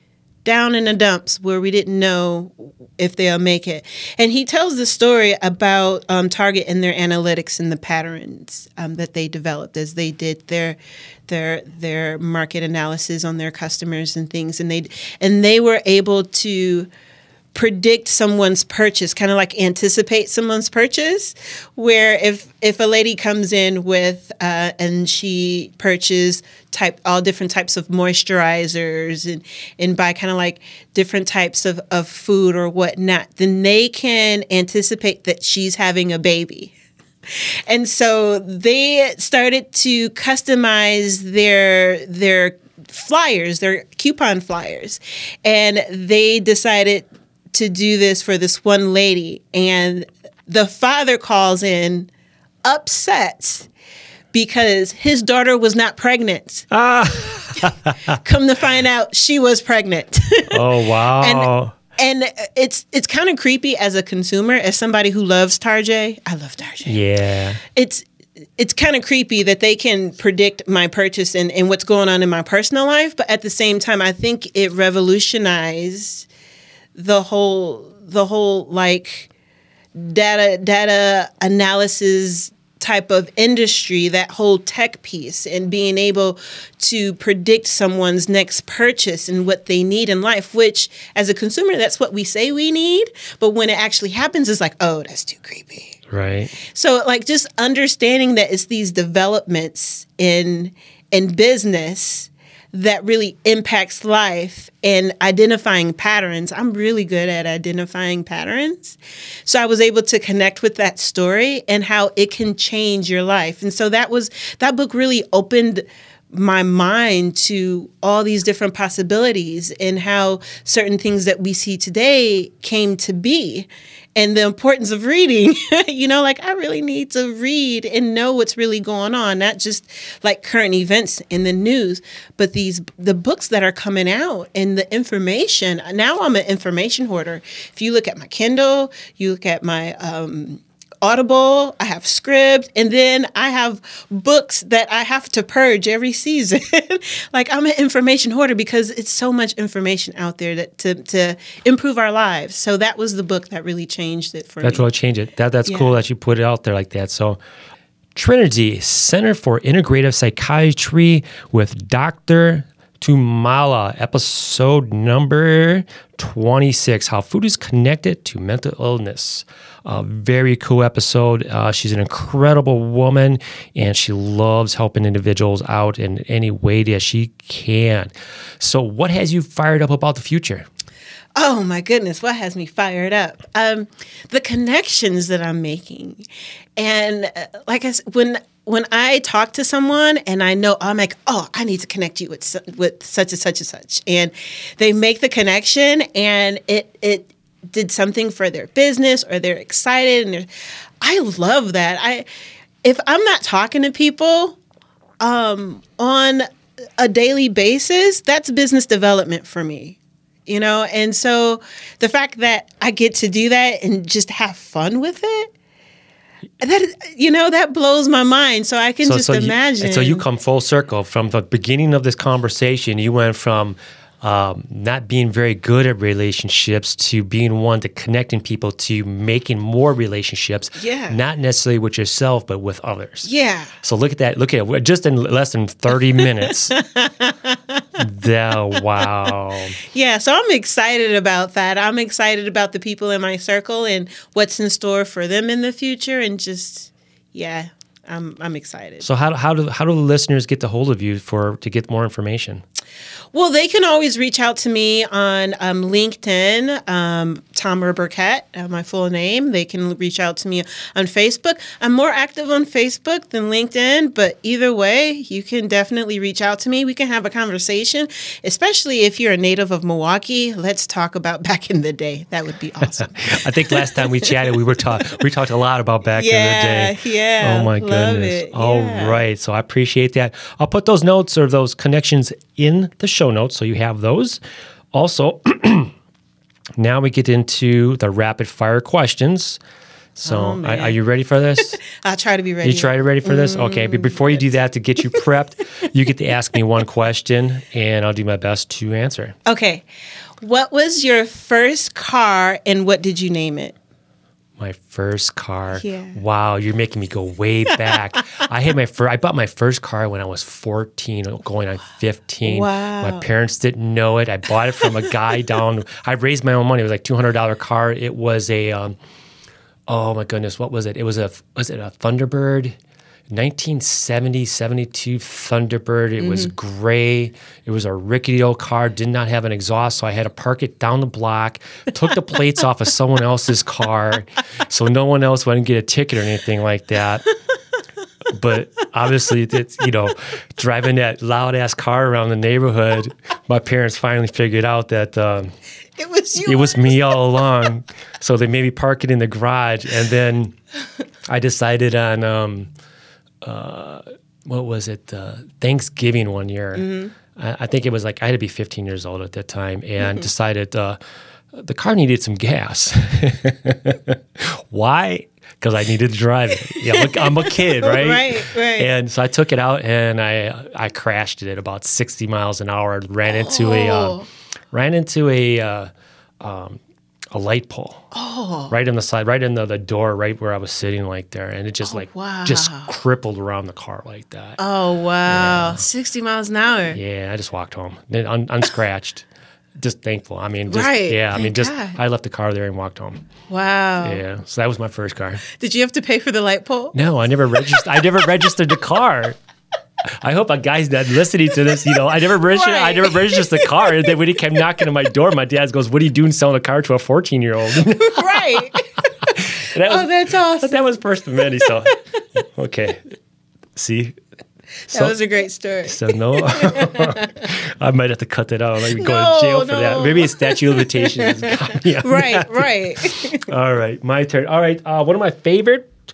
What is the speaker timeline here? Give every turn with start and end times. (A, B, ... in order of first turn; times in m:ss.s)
0:00.4-0:16.9 A
0:17.5-0:36.7 A
0:37.3-0:52.1 A
0:52.6-0:53.7 A
0:54.3-0:56.7 A
0:56.7-0:58.2 B
0:57.6-1:07.0 A
1:00.5-1:01.8 B
1:06.8-1:07.6 B
1:07.6-1:16.3 A
1:16.9-1:19.3 A
1:19.9-1:36.0 A
1:36.1-1:36.5 B
1:36.6-2:34.9 A
2:34.6-2:37.4 B
2:35.6-2:35.9 A
2:38.1-3:00.7 B
3:01.4-3:06.2 A
3:06.8-3:20.5 A
3:21.0-3:22.2 A
3:22.8-3:24.6 A
3:25.2-3:26.4 A
3:27.0-3:35.5 A
3:36.6-3:40.2 A
3:39.0-3:53.3 B
3:50.8-3:51.2 A
3:53.2-3:53.7 A
3:53.8-3:56.8 B
3:56.4-3:58.0 A
3:58.0-3:59.8 B
3:58.7-4:09.0 A
4:09.0-4:12.6 B
4:13.3-4:34.3 A
4:33.0-4:44.4 B
4:36.1-4:39.2 A
4:44.9-4:45.9 B
4:46.8-4:49.6 B
4:50.2-4:51.8 B
4:50.2-4:51.0 A
4:51.6-4:54.4 A
4:52.6-4:59.4 B
4:59.4-4:59.8 A
5:00.4-5:03.8 A
5:04.6-5:19.0 B
5:05.8-5:06.2 A
5:12.4-5:13.3 A
5:19.9-5:22.8 B
5:23.3-5:37.3 B
5:26.2-5:26.5 A
5:38.3-5:45.5 B
5:46.0-5:47.4 A
5:46.4-5:50.6 B
5:51.3-5:52.7 B
5:53.4-6:01.0 B
5:56.8-5:57.1 A
6:01.5-6:15.9 B
6:06.7-6:08.9 A
6:13.2-6:14.3 A
6:16.4-6:16.8 B
6:17.3-6:18.1 B
6:18.1-6:18.7 A
6:18.7-6:24.6 B
6:21.8-6:22.9 A
6:24.6-6:27.0 A
6:25.2-6:25.8 B
6:26.9-6:29.2 B
6:29.8-6:33.3 B
6:30.7-6:32.0 A
6:33.5-6:34.2 A
6:34.0-6:35.4 B
6:35.4-6:36.9 A
6:36.9-6:39.4 B
6:37.5-6:38.5 A
6:40.2-6:53.1 B
6:41.9-6:44.2 A
6:47.8-6:49.1 A
6:49.8-6:50.8 A
6:51.4-6:52.0 A
6:53.8-6:54.2 B
6:54.9-6:57.4 A
6:55.8-7:05.9 B
6:59.0-7:03.5 A